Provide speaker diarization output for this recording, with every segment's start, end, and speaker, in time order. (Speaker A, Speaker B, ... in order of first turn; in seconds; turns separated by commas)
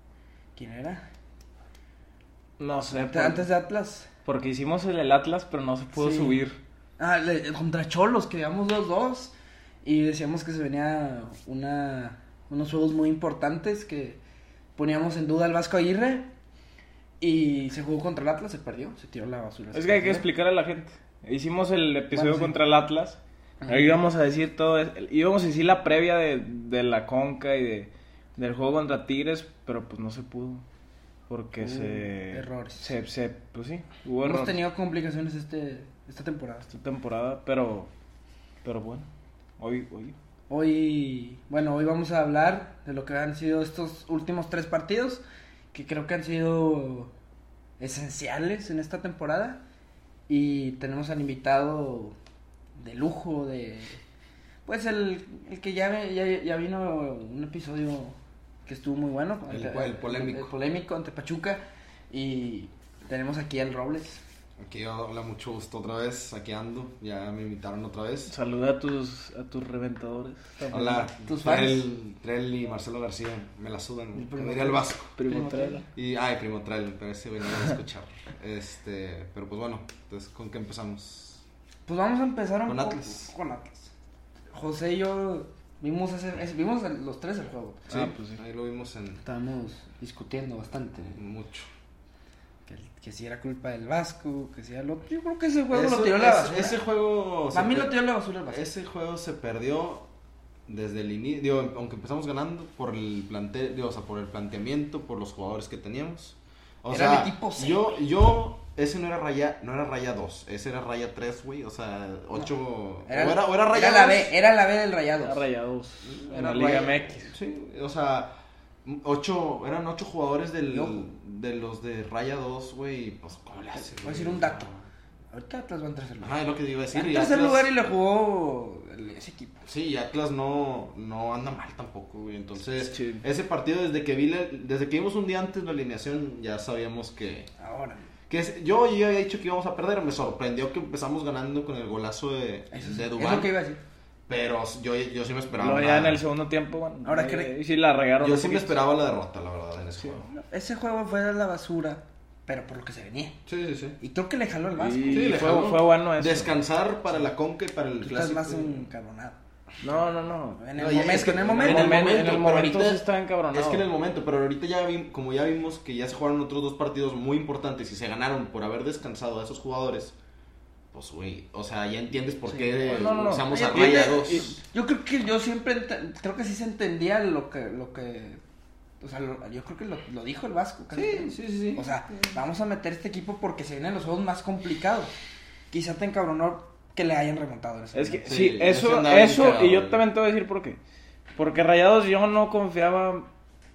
Speaker A: 0.5-1.0, Speaker B: 2.6-3.5, Speaker A: 3.0-4.1, Speaker B: 4.2-6.6, Speaker A: 5.9-6.4, Speaker A: 7.0-14.2, Speaker A: 14.8-16.3, Speaker A: 17.2-20.3, Speaker B: 19.7-30.6, Speaker A: 22.1-22.6, Speaker A: 23.6-24.0, Speaker B: 31.3-34.6, Speaker A: 31.6-32.9, Speaker A: 34.2-36.7, Speaker B: 36.7-37.9, Speaker B: 38.6-39.1, Speaker B: 39.6-40.1, Speaker A: 40.5-47.1, Speaker A: 47.8-49.6, Speaker A: 50.3-52.1, Speaker A: 52.8-54.0, Speaker A: 54.6-64.2, Speaker C: 59.5-60.5, Speaker C: 64.6-68.3, Speaker B: 68.3-71.1, Speaker C: 70.7-75.1, Speaker A: 71.2-71.9, Speaker A: 74.2-75.9, Speaker B: 75.2-75.8, Speaker C: 75.9-81.4, Speaker A: 81.8-83.9, Speaker C: 82.7-83.3, Speaker A: 84.5-88.0, Speaker C: 87.9-89.2, Speaker B: 87.9-88.4, Speaker A: 89.2-91.2, Speaker C: 91.1-91.7, Speaker A: 92.7-96.8, Speaker C: 95.7-100.1, Speaker A: 97.5-98.6, Speaker C: 100.7-114.3, Speaker A: 106.9-108.0, Speaker A: 113.1-115.4, Speaker B: 115.2-117.3, Speaker C: 116.0-124.8, Speaker A: 120.7-121.0, Speaker A: 124.0-124.7, Speaker A: 125.3-129.6, Speaker C: 126.2-127.7, Speaker C: 129.6-137.5, Speaker B: 132.7-133.2, Speaker A: 137.6-138.1, Speaker C: 138.3-143.5, Speaker A: 142.7-143.8, Speaker C: 144.3-146.2, Speaker B: 145.6-148.8, Speaker A: 147.0-147.5, Speaker C: 148.2-150.3, Speaker A: 150.3-153.4, Speaker C: 153.4-154.0, Speaker A: 154.0-155.4, Speaker B: 154.8-156.5, Speaker C: 155.1-158.9, Speaker A: 158.0-159.4, Speaker B: 159.8-163.8, Speaker A: 160.6-162.1, Speaker C: 160.8-170.1, Speaker C: 170.9-174.5, Speaker A: 172.5-178.4, Speaker B: 172.8-174.6, Speaker A: 179.0-185.1, Speaker C: 180.9-182.3, Speaker A: 185.7-188.3, Speaker B: 187.9-190.8, Speaker C: 188.3-190.0, Speaker B: 191.3-193.3